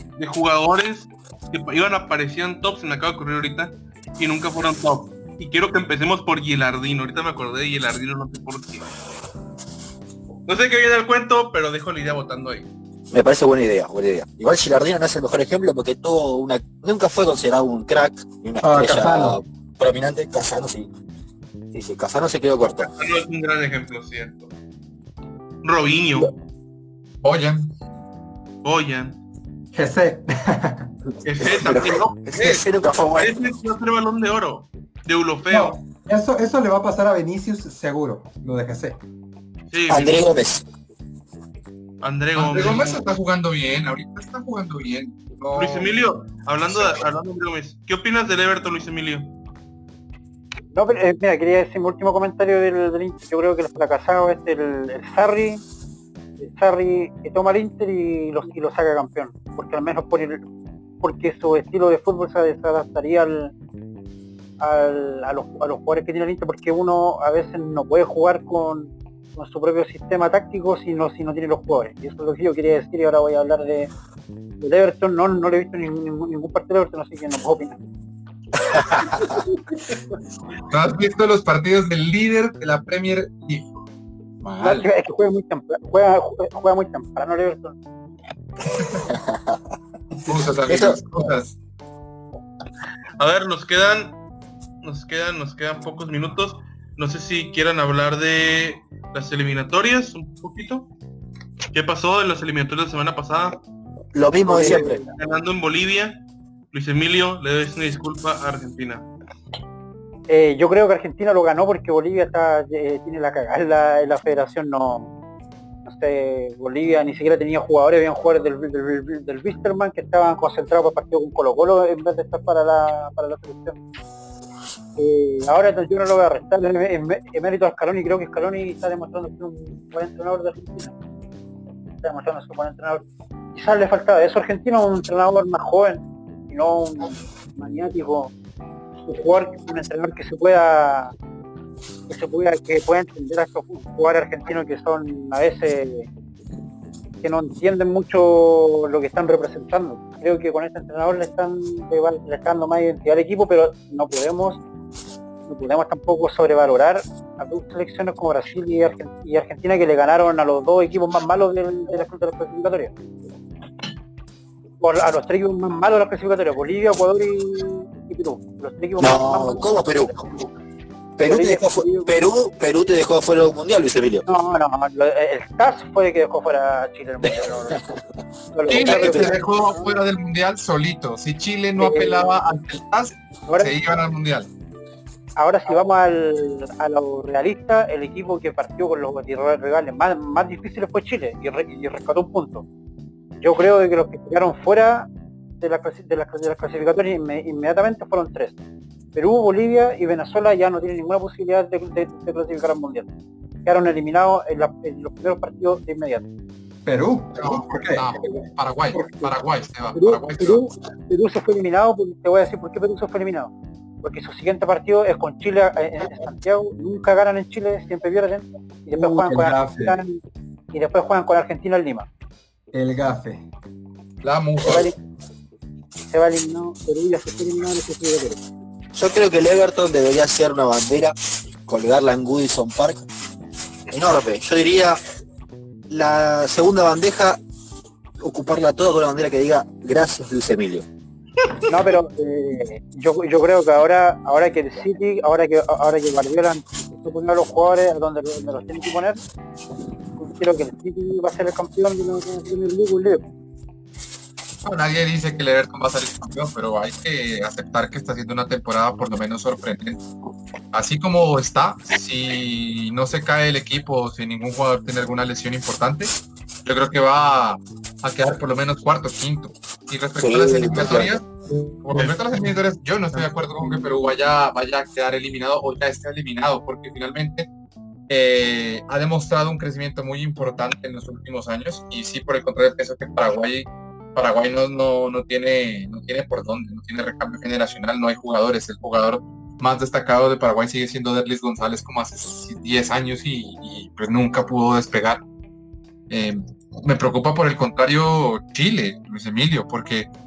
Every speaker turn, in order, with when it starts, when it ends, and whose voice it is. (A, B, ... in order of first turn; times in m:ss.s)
0:00.2-0:08.9 A
0:10.5-0:12.7 A
0:13.1-0:20.9 B
0:18.6-0:19.4 C
0:21.7-0:22.9 B
0:22.6-0:24.5 A
0:25.6-0:26.3 A
0:27.2-0:27.7 D
0:28.6-0:29.2 A
0:29.7-0:30.9 C
0:31.2-0:32.6 A
0:31.4-0:33.3 B
0:33.2-0:35.8 A
0:35.5-0:39.0 C
0:39.7-0:40.2 A
0:39.9-0:40.6 B
0:42.0-0:43.0 A
0:42.3-0:46.1 D
0:45.5-0:49.3 A
0:46.7-0:47.0 D
0:50.7-0:55.6 E
0:56.4-1:00.4 E
1:01.0-1:03.5 E
1:04.6-1:13.9 E
1:14.6-1:17.8 E
1:18.7-1:19.4 B
1:20.7-1:23.7 D
1:24.4-1:24.9 D
1:24.6-1:27.8 E
1:29.0-1:29.6 B
1:30.2-1:31.5 D
1:30.6-1:31.0 B
1:33.2-1:34.2 A
1:34.8-1:40.9 A
1:41.7-1:43.6 A
1:44.1-1:45.0 B
1:44.4-1:49.1 A
1:44.5-1:45.0 E
1:50.3-1:55.1 E
1:55.8-2:03.8 E
2:05.0-2:10.9 E
2:12.0-2:13.0 E
2:13.5-2:18.3 E
2:19.0-2:21.1 E
2:22.1-2:26.1 E
2:27.2-2:34.6 E
2:35.5-2:42.9 E
2:44.8-2:50.5 E
2:49.0-2:50.3 B
2:51.2-2:54.2 B
2:51.2-2:52.1 E
2:54.2-2:57.8 E
2:57.2-2:58.0 B
2:58.5-3:00.0 E
2:58.7-2:59.4 B
2:58.7-3:04.5 D
3:01.8-3:02.4 E
3:03.5-3:03.7 E
3:05.4-3:12.6 E
3:13.4-3:15.1 E
3:15.6-3:18.6 E
3:19.1-3:23.1 E
3:23.6-3:26.2 E
3:26.8-3:28.2 C
3:27.3-3:30.7 D
3:28.9-3:29.3 C
3:29.9-3:33.5 E
3:34.0-3:40.2 E
3:38.9-3:40.0 C
3:40.7-3:42.1 E
3:42.7-3:43.4 C
3:44.2-3:44.9 D
3:44.6-3:44.9 E
3:46.1-3:48.4 E
3:48.9-3:51.1 B
3:51.6-3:53.0 B
3:53.9-3:55.0 B
3:55.9-3:57.4 B
3:58.2-4:00.8 B
4:01.4-4:01.7 A
4:01.7-4:09.2 E
4:10.2-4:13.2 E
4:14.6-4:20.0 D
4:20.7-4:26.1 D
4:26.6-4:37.5 D
4:30.2-4:31.2 B
4:31.9-4:32.4 A
4:38.1-4:55.2 D
4:56.1-5:00.1 D